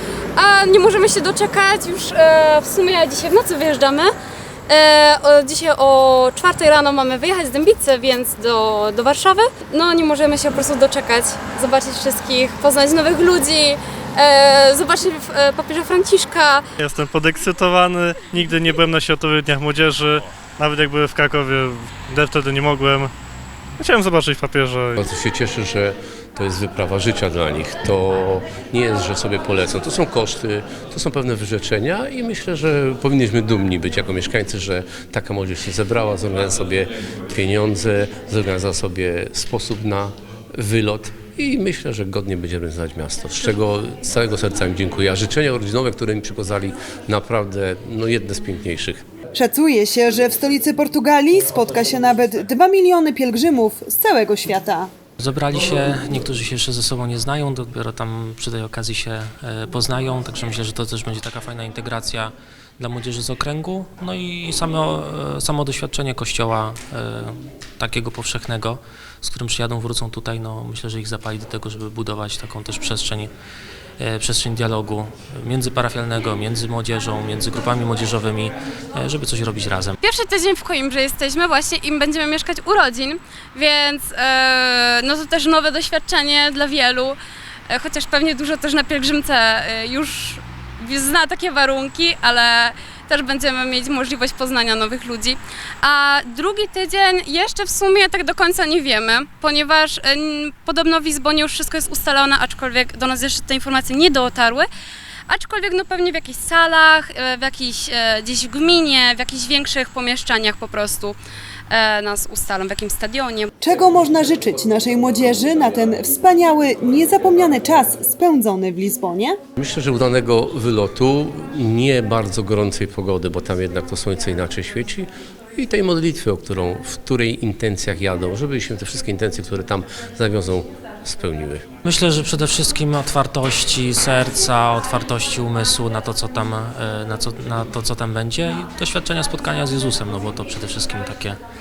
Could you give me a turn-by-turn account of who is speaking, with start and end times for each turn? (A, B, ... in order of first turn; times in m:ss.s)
0:00.4-0:04.1 A
0:04.7-0:16.6 A
0:16.8-0:23.1 B
0:23.8-0:25.0 B
0:25.0-0:49.0 C
0:49.3-0:54.9 D
0:55.2-1:13.3 E
1:14.0-1:20.0 E
1:20.0-1:27.2 A
1:27.7-1:44.7 A
1:45.3-1:51.2 A
1:51.7-1:53.5 A
1:53.6-1:59.4 D
1:59.6-2:11.6 C
2:11.8-2:21.4 E